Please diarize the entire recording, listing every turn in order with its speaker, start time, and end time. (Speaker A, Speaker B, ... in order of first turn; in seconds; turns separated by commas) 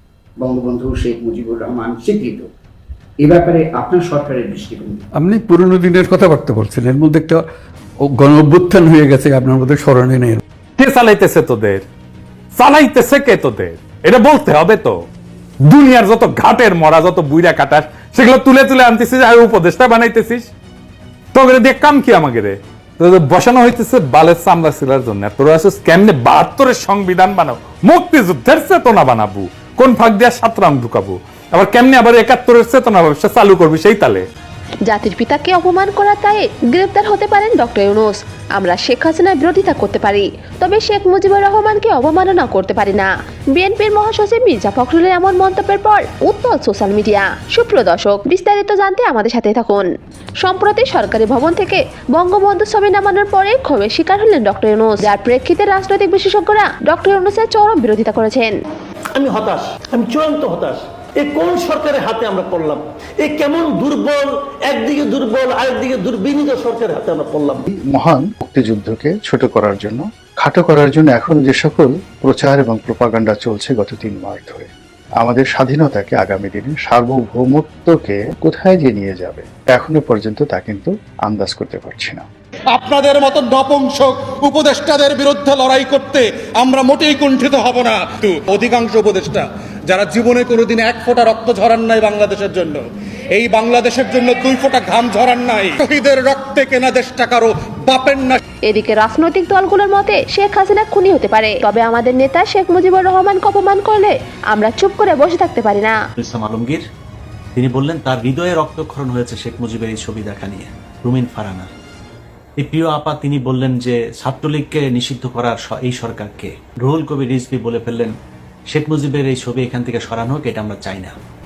Speaker A: 0.4-2.5, Speaker A: 3.2-5.0, Speaker B: 5.3-7.4, Speaker B: 8.2-10.4, Speaker C: 10.8-11.8, Speaker C: 12.6-14.9, Speaker C: 15.7-20.5, Speaker C: 21.3-34.3, Speaker D: 34.9-49.9, Speaker D: 50.4-58.5, Speaker E: 59.1-67.7, Speaker F: 67.9-74.7, Speaker F: 75.2-82.2, Speaker G: 82.7-92.8, Speaker G: 93.3-98.4, Speaker D: 98.7-106.0, Speaker H: 106.2-106.8, Speaker H: 107.6-111.7, Speaker H: 112.6-118.1, Speaker H: 118.7-121.1